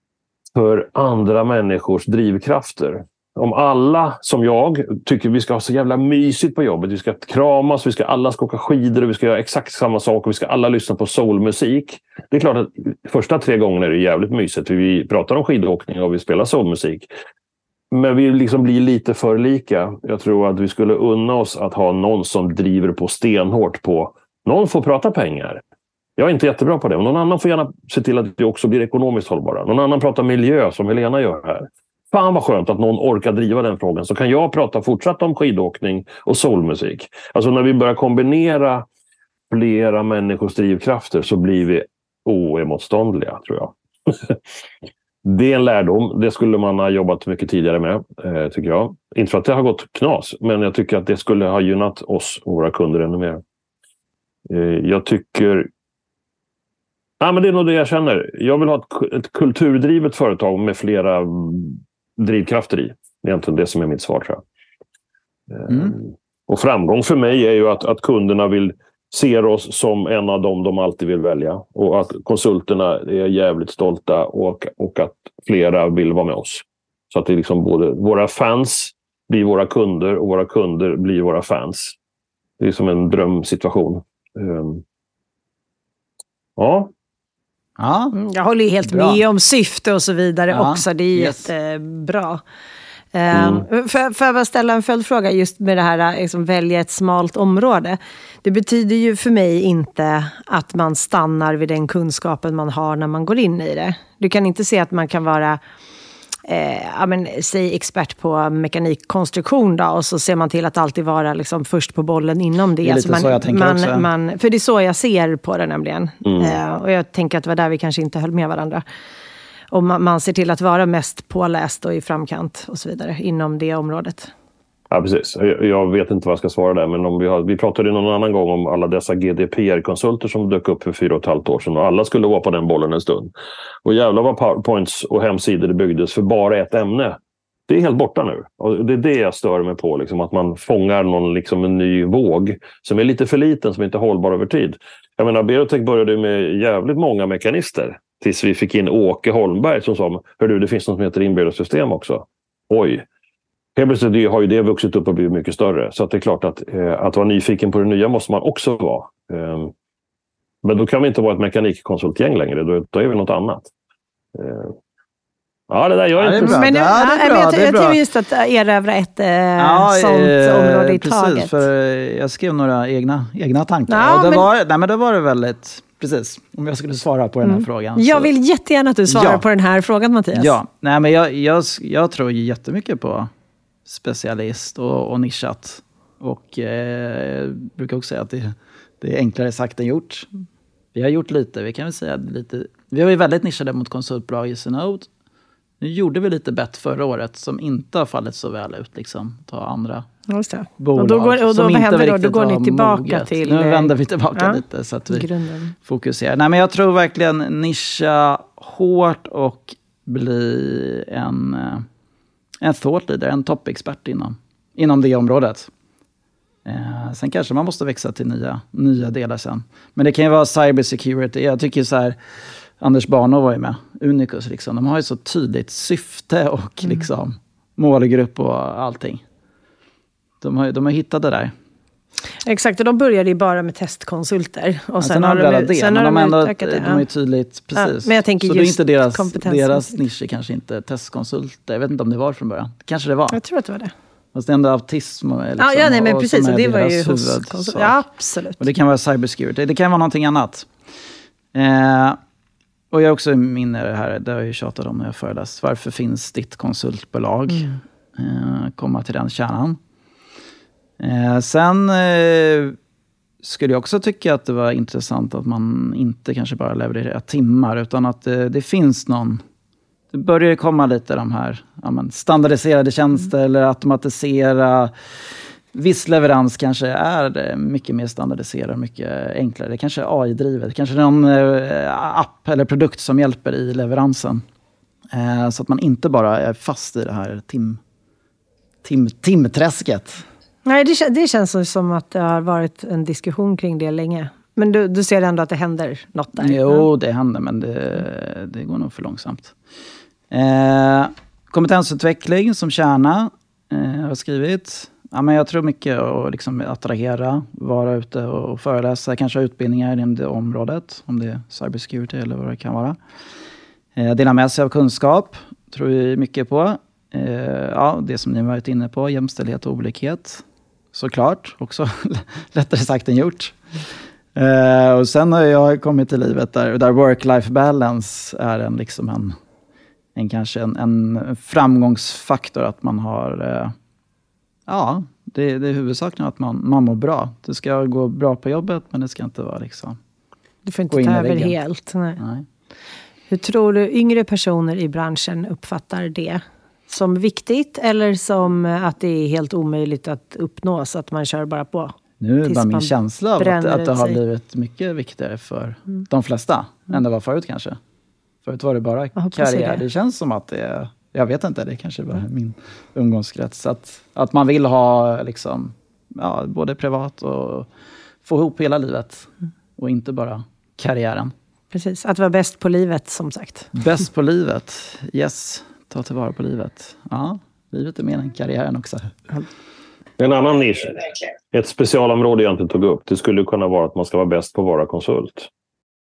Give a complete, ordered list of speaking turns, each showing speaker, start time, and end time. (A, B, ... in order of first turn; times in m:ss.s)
0:00.5-0:17.1 A
0:17.9-0:25.6 A
0:26.2-0:38.9 A
0:39.5-0:44.4 A
0:45.2-0:53.4 A
0:54.5-0:55.7 A
0:57.2-1:04.4 A
1:05.5-1:22.0 A
1:05.7-1:06.0 B
1:22.6-1:24.8 A
1:26.6-1:26.9 A
1:27.8-1:28.1 B
1:28.1-1:32.4 C
1:28.8-1:29.2 B
1:30.5-1:31.5 B
1:33.1-1:45.6 C
1:33.3-1:33.6 A
1:46.5-1:58.8 C
1:52.8-1:54.1 B
1:59.7-2:04.3 C
2:04.9-2:13.3 A
2:13.8-2:33.0 A
2:33.8-2:39.7 A
2:40.6-2:43.7 A
2:44.4-2:44.8 A
2:45.7-2:46.6 A
2:46.2-2:48.0 B
2:46.4-2:51.7 C
2:49.6-2:58.3 B
2:53.9-2:54.5 C
2:57.4-3:00.6 C
2:59.1-2:59.4 B
3:00.4-3:03.3 B
3:03.9-3:10.3 B
3:10.9-3:15.1 B
3:15.8-3:20.1 B
3:20.3-3:25.8 C
3:20.8-3:25.3 B
3:25.8-3:31.9 B
3:32.6-3:35.7 B
3:36.6-3:42.2 B
3:42.8-3:49.2 B
3:50.4-3:51.5 B
3:52.4-3:57.0 C
3:55.0-4:03.4 B
3:57.8-4:00.0 C
4:03.3-4:03.9 C
4:04.3-4:08.0 B
4:05.6-4:08.6 C
4:08.6-4:10.7 B
4:11.5-4:12.2 B
4:12.9-4:19.8 B
4:21.0-4:22.8 B
4:23.4-4:29.4 B
4:30.1-4:34.9 B
4:35.7-4:44.4 B
4:45.1-4:47.8 B
4:48.8-4:50.2 B
4:50.6-4:56.9 C
4:56.4-4:59.5 B
5:00.3-5:13.0 B
5:14.0-5:23.6 B
5:24.4-5:29.4 B
5:30.2-5:33.8 B
5:34.7-5:40.0 B
5:40.6-5:42.2 C
5:40.9-5:41.6 B
5:42.2-5:42.4 B
5:43.3-5:54.2 C
5:52.2-5:57.8 B
5:58.4-6:07.7 B
5:59.2-5:59.8 C
6:08.2-6:11.3 B
6:11.7-6:13.7 C
6:13.7-6:19.2 B
6:20.2-6:25.5 A